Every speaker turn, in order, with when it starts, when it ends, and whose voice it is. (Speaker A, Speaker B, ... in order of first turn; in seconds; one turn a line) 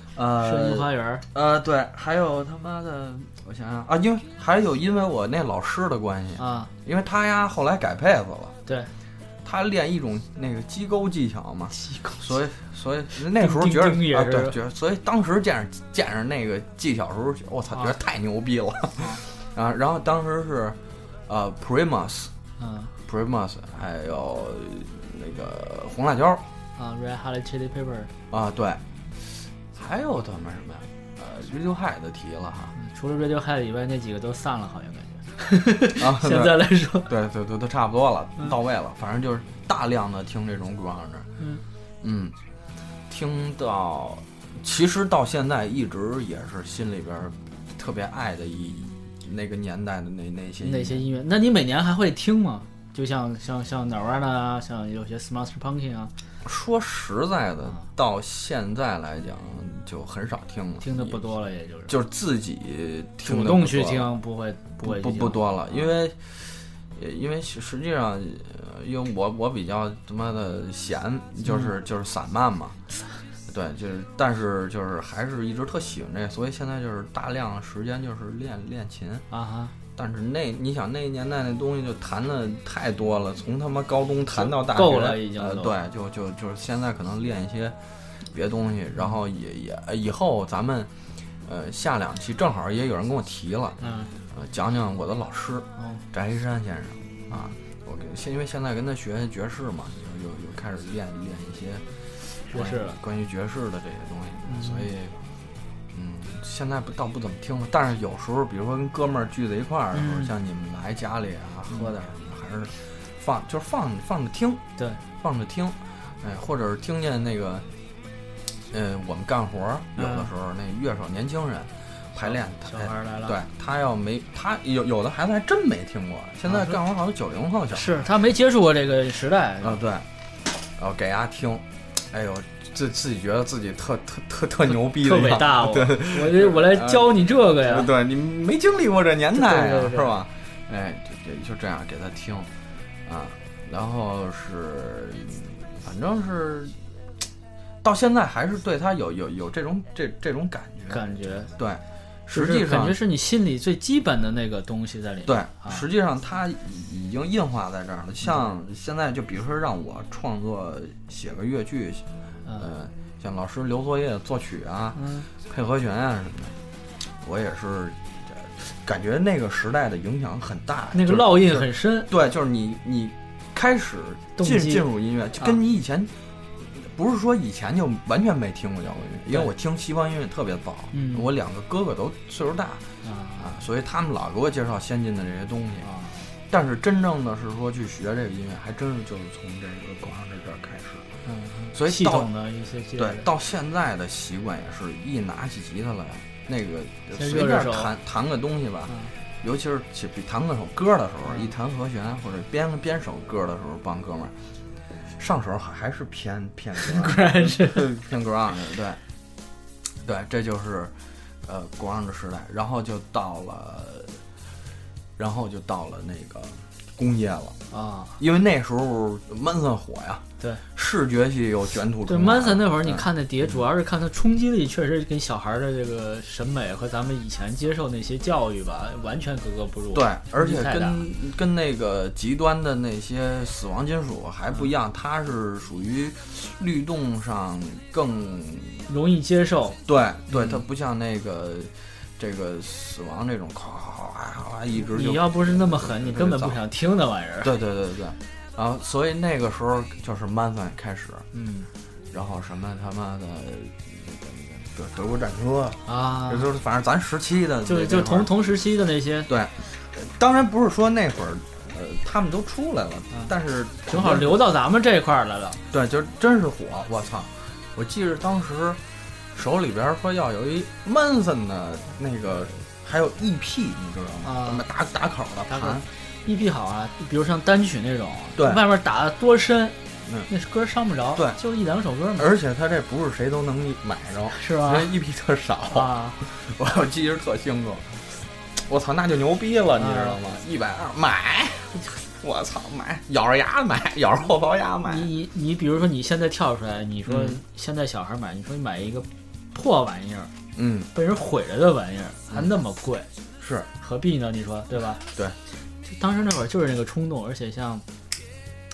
Speaker A: 0.2-8.5
Speaker B: 0.4-1.2
Speaker B: 6.4-6.7
Speaker B: 8.7-8.9
Speaker A: 9.4-22.3
Speaker B: 11.8-12.2
Speaker B: 13.2-14.6
Speaker B: 22.6-22.9
Speaker A: 23.1-26.4
Speaker B: 26.8-28.1
Speaker A: 28.3-28.8
Speaker A: 29.8-32.7
Speaker B: 32.8-37.1
Speaker A: 36.0-41.3
Speaker A: 42.0-42.4
Speaker A: 43.1-51.0
Speaker B: 50.6-56.1
Speaker A: 56.4-61.2
Speaker B: 60.8-61.9
Speaker A: 61.9-64.1
Speaker B: 63.2-65.9
Speaker A: 64.8-72.8
Speaker B: 71.5-71.7
Speaker A: 73.5-79.3
Speaker B: 79.3-79.7
Speaker A: 80.0-87.8
Speaker B: 84.3-85.7
Speaker A: 88.3-90.9
Speaker A: 91.4-93.8
Speaker B: 93.8-94.1
Speaker A: 94.3-105.2
Speaker B: 102.5-103.0
Speaker B: 104.4-104.9
Speaker A: 105.9-114.6
Speaker B: 109.9-110.3
Speaker A: 115.2-117.7
Speaker A: 118.7-128.0
Speaker B: 120.0-120.3
Speaker B: 122.2-123.4
Speaker B: 126.5-126.8
Speaker B: 127.7-129.8
Speaker A: 129.6-130.1
Speaker A: 130.6-142.5
Speaker B: 134.7-137.9
Speaker B: 139.3-140.2
Speaker A: 143.1-146.8
Speaker A: 147.8-151.0
Speaker B: 150.9-151.5
Speaker A: 151.6-153.0
Speaker B: 152.3-155.8
Speaker A: 155.3-162.1
Speaker A: 162.6-166.6
Speaker B: 164.9-165.3
Speaker A: 167.2-176.1
Speaker B: 170.9-172.1
Speaker B: 174.4-174.9
Speaker A: 176.6-182.8
Speaker B: 180.9-181.3
Speaker B: 183.0-183.5
Speaker A: 183.4-185.9
Speaker B: 185.8-186.2
Speaker A: 186.5-191.1
Speaker B: 191.2-193.3
Speaker A: 191.7-192.3
Speaker A: 193.0-204.3
Speaker B: 197.2-197.9
Speaker A: 205.2-209.0
Speaker B: 206.8-208.0
Speaker A: 210.0-214.2
Speaker A: 215.2-217.6
Speaker B: 217.7-218.2
Speaker A: 218.2-223.1
Speaker B: 222.1-231.0
Speaker A: 229.9-238.9
Speaker B: 238.9-240.6
Speaker A: 239.9-246.6
Speaker B: 244.8-247.5
Speaker A: 247.4-251.3
Speaker B: 251.3-251.7
Speaker A: 252.1-258.4
Speaker B: 255.9-256.5
Speaker B: 257.6-259.3
Speaker A: 259.3-264.4
Speaker B: 263.9-265.6
Speaker A: 265.7-268.8
Speaker A: 269.3-275.8
Speaker B: 274.2-274.6
Speaker B: 275.5-279.8
Speaker A: 278.4-278.6
Speaker B: 280.3-282.3
Speaker A: 282.2-295.1
Speaker B: 284.3-284.9
Speaker B: 285.7-286.2
Speaker B: 289.8-290.2
Speaker B: 294.9-300.3
Speaker A: 297.1-297.4
Speaker A: 300.6-300.9
Speaker B: 300.9-303.1
Speaker A: 303.4-303.7
Speaker B: 303.8-305.0
Speaker B: 305.8-307.8